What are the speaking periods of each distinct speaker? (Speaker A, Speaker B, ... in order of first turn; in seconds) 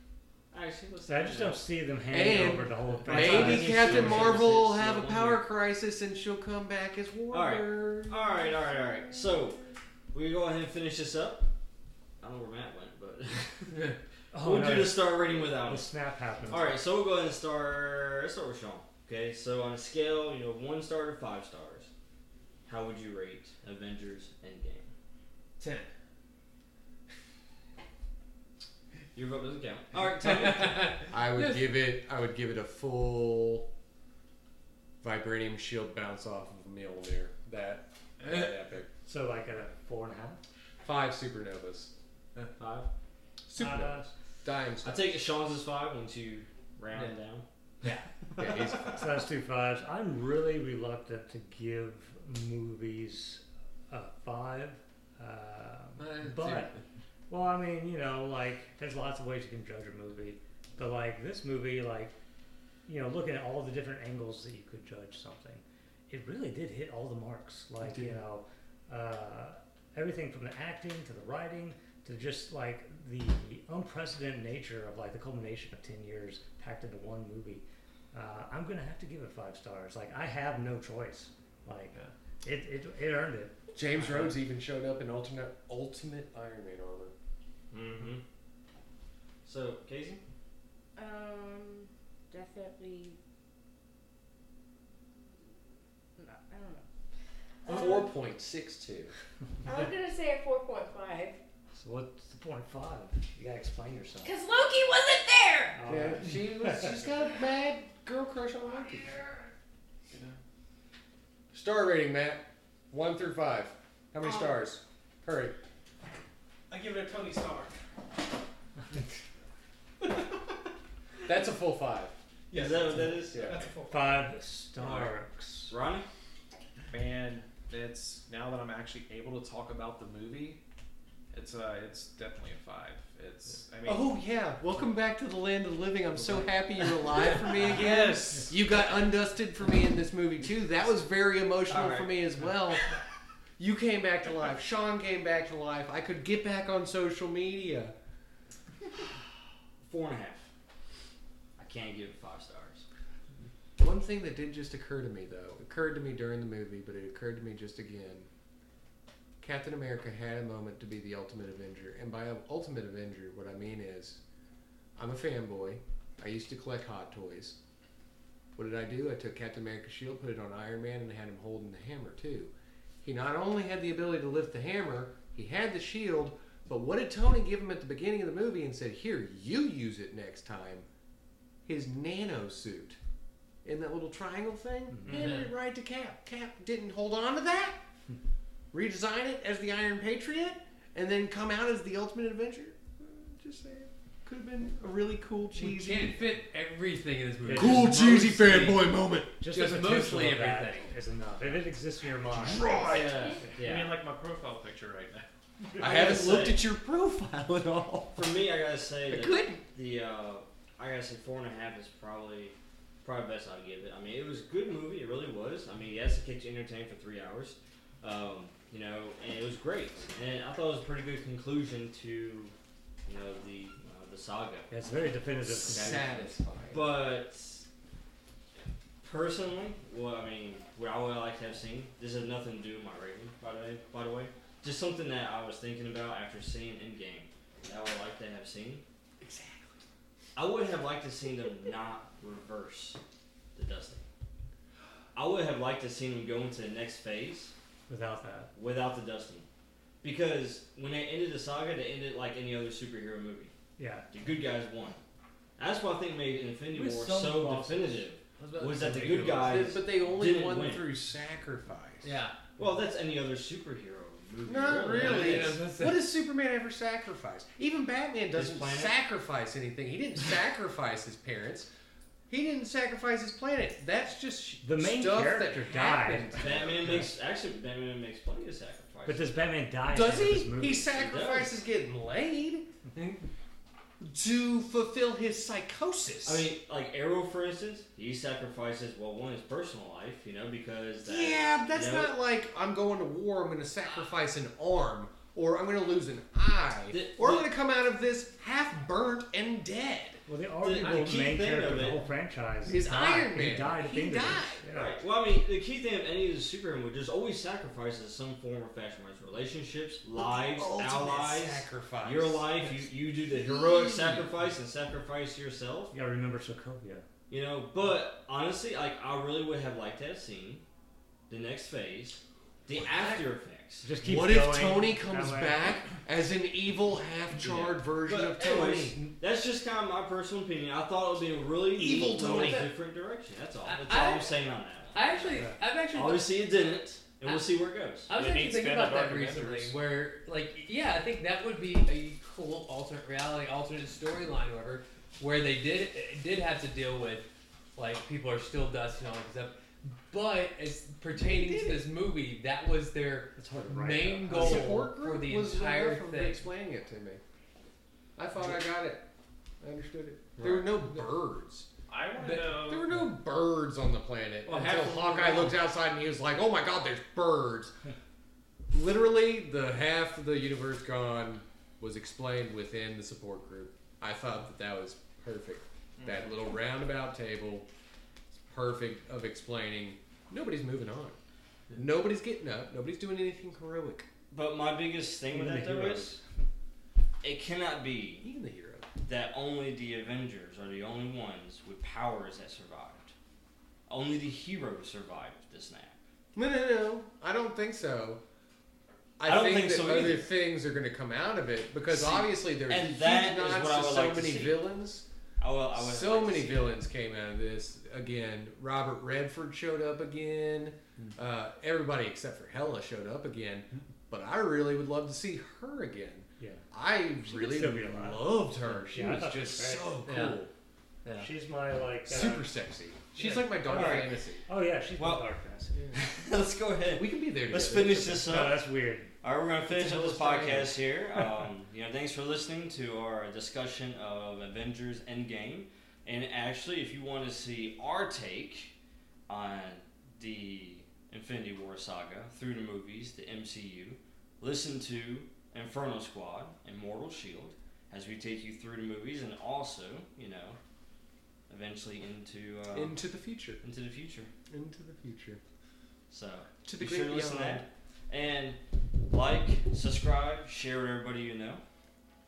Speaker A: 0.5-1.6, 3.1-5.4, 7.3-11.5, 12.2-13.8, 14.4-15.9, 16.5-21.9, 22.7-24.9, 29.1-30.9, 42.6-42.9, 44.8-47.5, 84.0-84.4, 87.7-88.2, 89.4-90.2, 122.5-123.7, 124.8-125.2, 125.7-126.1, 141.7-142.1, 149.9-150.5, 151.6-152.8, 202.8-204.0, 205.8-206.6, 208.2-222.5, 223.1-224.7, 225.6-227.7, 229.0-238.8, 240.4-243.0, 243.6-244.1, 245.1-247.6, 248.6-249.5, 250.0-253.5, 254.1-255.0, 255.6-260.9, 262.6-265.6, 268.3-268.9, 276.4-279.3, 280.9-281.5, 286.2-292.1, 296.9-297.5, 300.6-302.0, 304.7-315.9, 317.3-320.6, 321.3-323.9, 327.4-338.1, 360.4-360.8, 364.5-365.6, 384.3-386.2, 387.2-388.3, 389.0-393.1, 393.9-395.9, 399.2-400.3, 401.9-404.7, 405.4-406.8, 423.7-424.1, 425.0-425.2, 425.9-428.6, 429.2-438.7, 439.3-450.6, 451.5-453.0, 453.6-454.3, 456.1-461.6
Speaker B: 1.1-4.4, 14.3-16.7, 39.1-40.4, 43.6-44.1, 48.8-56.7, 57.3-62.1, 62.9-83.5, 101.7-104.3, 105.8-106.9, 123.9-125.7, 185.0-185.3, 197.4-198.1, 199.4-202.8, 224.7-226.1, 247.9-248.5, 253.8-254.1, 256.7-258.1, 274.6-277.1, 279.1-280.9, 300.3-305.0, 315.9-317.1, 323.8-325.8, 353.4-354.8, 385.3-386.2, 417.3-418.4, 418.9-419.9, 421.2-422.5, 423.7-425.8, 428.3-429.1
Speaker C: 2.1-8.4, 31.1-33.7, 35.0-38.9, 40.8-41.9, 43.5-45.2, 48.4-49.1, 56.0-56.7, 67.8-68.2, 83.7-87.1, 97.7-99.1, 105.9-109.2, 111.5-115.6, 121.3-122.2, 123.0-123.6, 133.8-142.9, 143.6-147.9, 153.8-158.3, 159.4-164.2, 165.0-167.6, 168.6-180.9, 181.7-183.0, 183.6-187.8, 188.7-196.2, 197.5-199.3, 202.3-203.2, 205.8-208.2, 209.1-209.6, 225.4-226.9, 239.2-239.8, 258.8-262.1, 264.4-271.7, 272.3-277.1, 279.9-282.7, 284.0-286.5, 291.0-300.2, 302.6-304.6, 310.1-314.5, 324.0-329.1, 331.8-332.7, 351.1-351.8, 354.3-357.2, 358.2-359.0, 359.6-361.7, 362.6-367.8, 368.7-377.7, 378.3-381.2, 381.8-384.1, 388.2-388.9, 396.4-398.2, 399.2-405.1, 405.7-420.5, 422.1-424.4, 426.9-428.3, 429.7-430.8, 452.7-453.6, 454.5-455.4, 456.6-457.6
Speaker D: 3.2-4.4, 25.6-25.9, 30.2-31.7, 47.8-48.1, 185.1-185.5, 195.6-198.9, 199.5-200.9, 258.4-259.7, 262.0-262.4, 264.9-266.1, 333.6-334.4, 334.9-336.4, 338.1-356.5, 362.2-362.6, 420.1-420.4
Speaker E: 91.0-93.2, 96.2-96.9, 97.7-98.1, 99.7-101.4, 104.2-105.8, 203.1-203.3
Speaker F: 110.1-110.4, 126.9-130.6, 131.3-134.1, 136.2-138.6, 203.6-205.8, 338.1-339.7, 361.9-362.9, 376.0-376.3
Speaker G: 116.7-117.8, 122.5-122.8, 123.4-124.4